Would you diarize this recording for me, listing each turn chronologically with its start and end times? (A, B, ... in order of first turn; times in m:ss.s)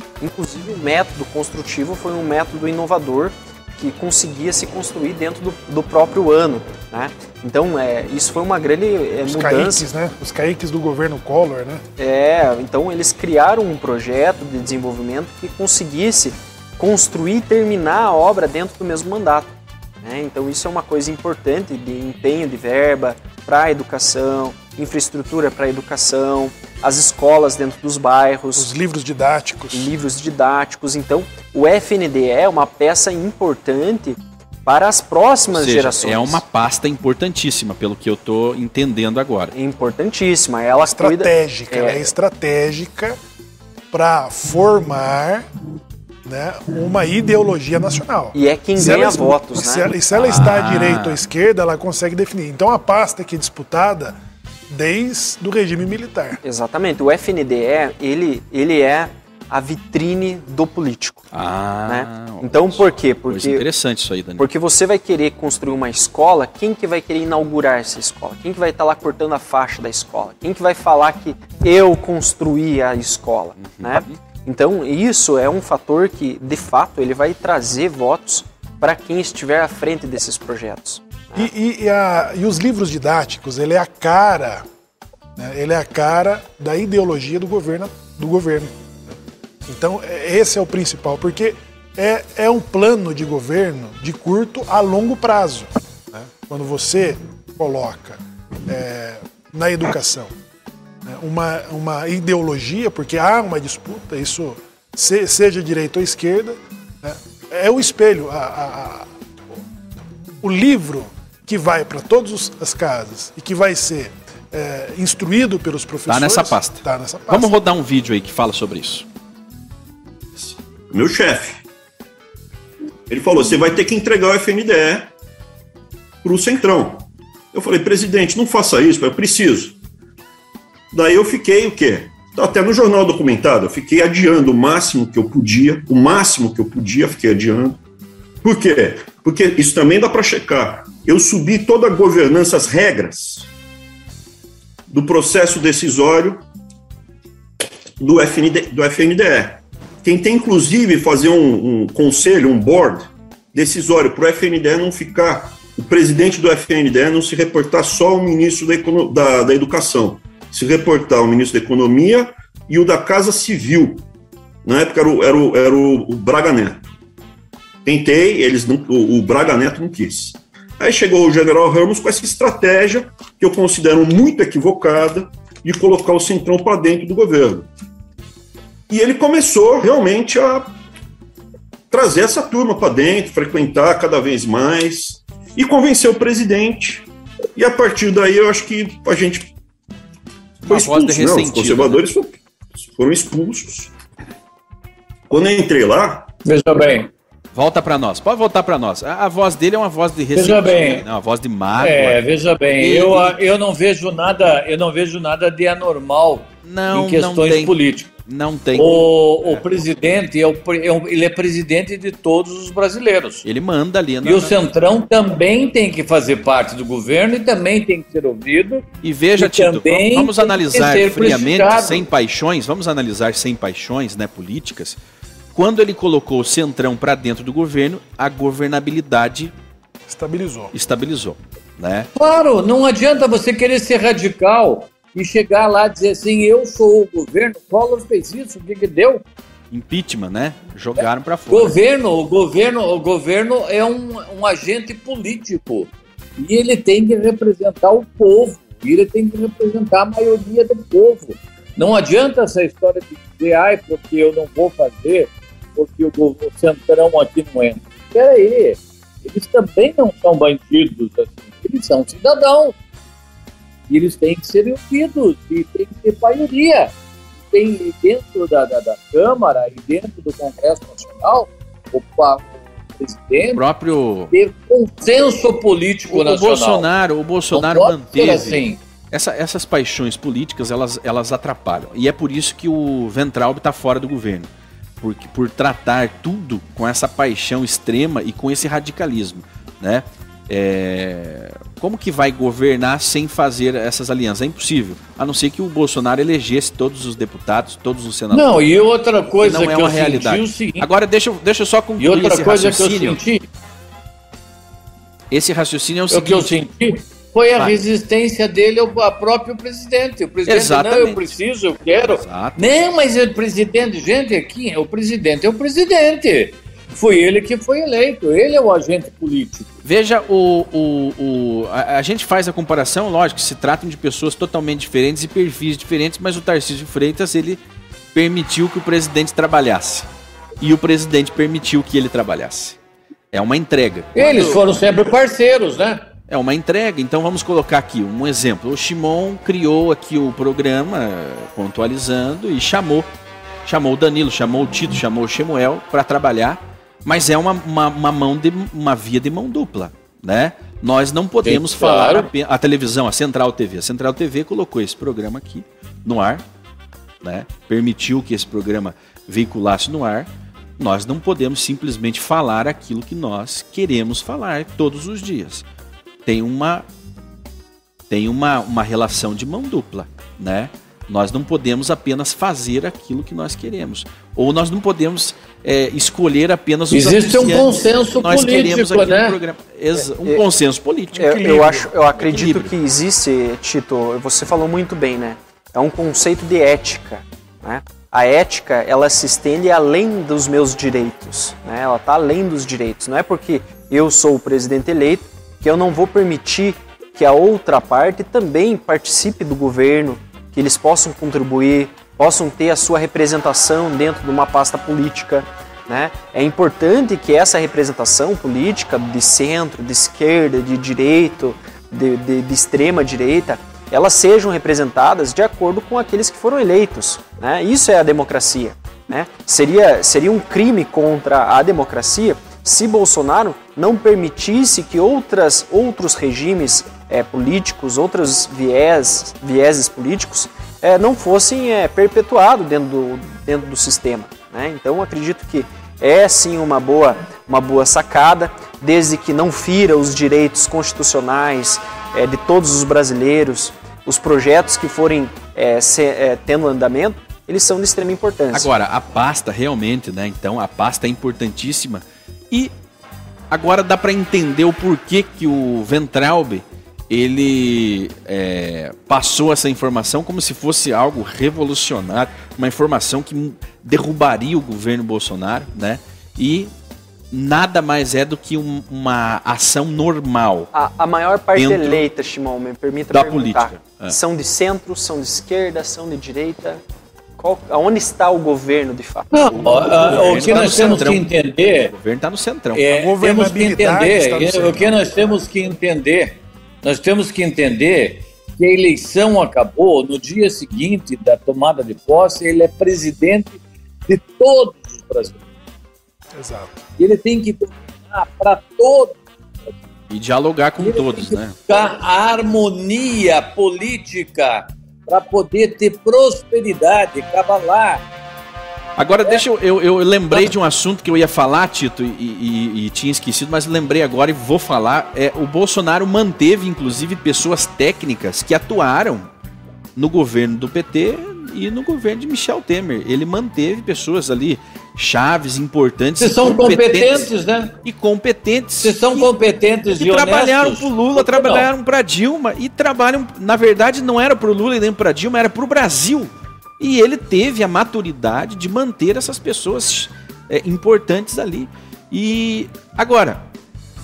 0:00.2-0:09.8 A
0:09.2-0:11.8 B
0:12.0-0:19.5 A
0:20.0-0:28.7 A
0:28.6-0:29.9 B
0:29.7-0:36.4 A
0:35.5-0:39.5 C
0:39.5-0:42.1 A
0:40.9-0:43.2 B
0:43.9-0:45.4 B
0:46.2-0:54.2 B
0:48.3-0:49.9 A
0:50.1-0:51.2 C
0:54.7-0:56.4 B
0:56.4-1:01.3 A
1:01.3-1:04.5 C
1:01.9-1:03.6 A
1:04.4-1:21.5 A
1:13.6-1:14.2 C
1:21.4-1:24.6 B
1:25.4-1:28.7 B
1:29.7-1:40.3 B
1:41.1-1:49.6 B
1:50.4-1:57.5 B
1:56.1-1:59.1 C
2:00.9-2:01.6 D
2:03.1-2:05.1 D
2:06.2-2:09.8 D
2:10.9-2:17.8 D
2:18.4-2:23.5 D
2:24.9-2:26.4 D
2:28.0-2:44.1 D
2:44.6-2:46.9 D
2:47.8-2:57.7 D
2:58.9-3:00.7 D
3:01.9-3:09.5 D
3:10.6-3:13.9 D
3:10.7-3:12.0 C
3:15.3-3:16.3 D
3:16.4-3:17.1 E
3:17.6-3:22.2 C
3:20.4-3:21.0 E
3:21.8-3:28.1 E
3:22.8-3:23.4 C
3:26.6-3:27.8 C
3:28.3-3:29.6 C
3:28.8-3:33.5 E
3:33.4-3:34.6 C
3:34.2-3:38.9 E
3:39.0-3:45.0 C
3:39.4-3:42.1 E
3:45.5-3:49.5 C
3:50.1-3:50.7 B
3:50.7-3:52.1 C
3:52.2-3:59.2 E
3:59.7-4:01.8 C
4:01.5-4:22.8 E
4:23.9-4:27.0 E
4:27.5-4:33.6 E
4:33.6-4:34.3 C
4:34.3-4:36.9 E
4:36.1-4:44.5 C
4:37.5-4:38.8 E
4:45.0-4:58.6 C
4:58.3-5:00.9 E
4:59.4-5:03.2 C
5:02.0-5:03.5 E
5:05.3-5:06.6 C
5:06.1-5:19.7 E
5:10.5-5:11.4 C
5:12.0-5:12.7 C
5:19.8-5:27.6 C
5:28.1-5:30.1 C
5:30.6-5:32.8 C
5:33.3-5:34.7 C
5:34.2-5:36.1 E
5:36.3-5:43.1 C
5:43.6-5:56.4 C
5:51.4-5:52.3 E
5:57.2-6:05.6 C
6:06.3-6:06.8 C
6:08.1-6:21.2 C
6:16.9-6:19.4 E
6:21.1-6:21.9 B
6:21.2-7:28.7 A
6:22.2-6:22.7 C
7:28.5-7:32.7 C
7:33.5-7:46.7 C
7:47.3-7:50.7 C
7:50.7-7:56.8 A
7:51.6-7:52.0 C
7:53.1-7:54.2 C
7:57.4-8:00.8 A
7:59.3-8:01.9 E
7:59.6-8:02.8 C
8:02.7-8:15.4 E
8:02.9-8:05.0 B
8:16.4-8:16.8 B
8:17.0-8:19.2 E
8:20.1-8:21.6 C
8:20.8-8:28.0 E
8:29.0-8:39.3 C
8:40.0-8:47.3 C
8:46.2-8:47.8 E
8:47.8-8:49.3 C
8:48.8-8:51.7 E
8:50.0-9:03.4 C